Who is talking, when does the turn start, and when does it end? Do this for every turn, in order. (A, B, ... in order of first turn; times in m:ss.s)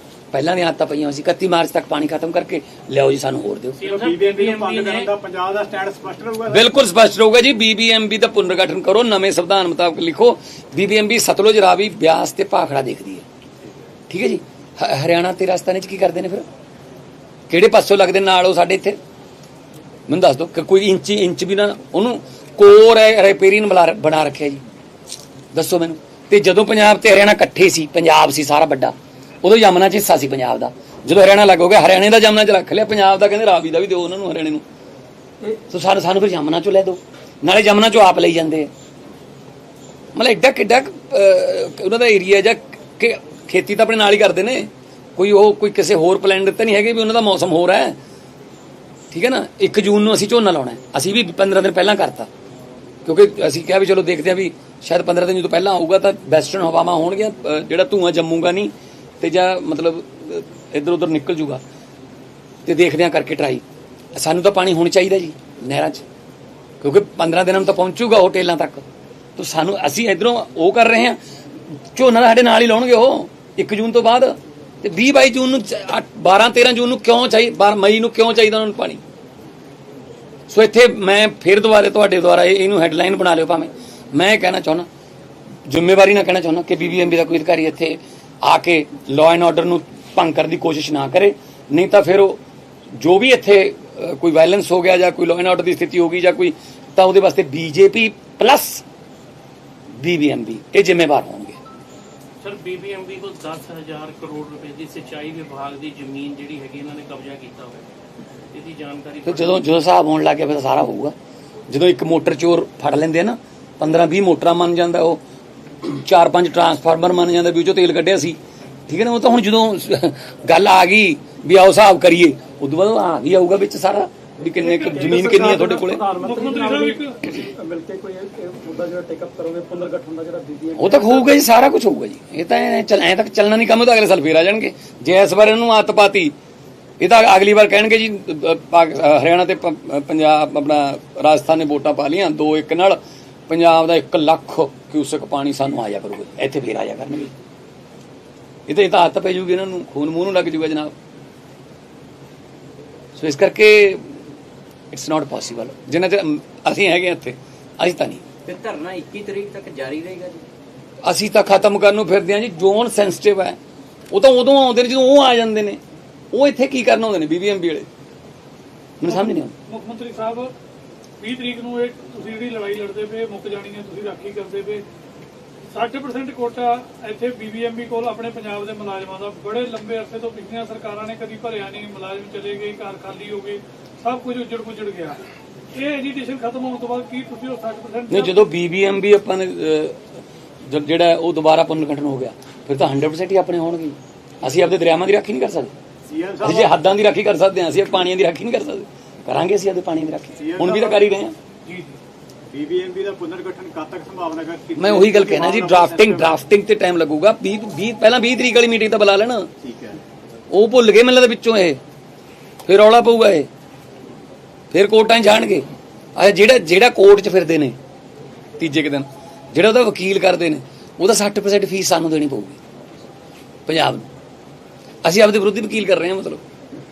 0:00.3-0:03.8 A
0:03.8-0:05.1 B
0:03.8-0:06.7 C
0:06.5-0:13.2 A
0:14.1-0:16.4 A
0:17.5-0:19.0 A
0:20.1-0:24.6 A
0:25.5-0:34.6 A
0:35.7-0:38.7 A
0:40.1-0:48.0 A
0:49.1-0:52.3 A
0:53.0-1:01.6 A
1:02.6-1:03.6 A
1:04.1-1:06.0 A
1:06.8-1:08.8 A
1:09.4-1:11.2 A
1:11.9-1:19.0 A
1:20.5-1:24.9 A
1:25.7-1:32.4 A
1:33.0-1:38.8 A
1:40.0-1:41.6 A
1:42.4-1:47.8 B
1:48.5-1:49.6 B
1:49.2-1:51.1 A
1:51.7-1:55.2 A
1:55.8-2:06.0 A
2:04.5-2:11.4 D
2:06.2-2:07.2 E
2:10.8-2:16.3 A
2:17.0-2:27.3 A
2:28.7-2:30.9 A
2:33.1-2:34.1 A
2:34.9-2:38.2 A
2:38.4-2:40.4 F
2:41.0-2:43.6 A
2:44.1-2:45.8 A
2:46.3-2:47.9 A
2:49.0-2:49.5 A
2:49.0-2:50.5 E
2:51.2-2:54.8 E
2:55.7-3:05.2 E
3:05.7-3:08.5 E
3:08.1-3:15.7 A
3:16.1-3:16.7 C
3:16.4-3:21.3 A
3:20.4-3:21.1 C
3:21.7-3:22.0 E
3:22.5-3:26.4 C
3:24.8-3:29.5 A
3:29.6-3:30.0 C
3:30.5-3:31.8 A
3:32.6-3:33.5 A
3:34.7-3:35.6 A
3:36.2-3:37.8 A
3:38.6-3:42.6 A
3:43.7-3:44.1 A
3:45.0-3:46.4 A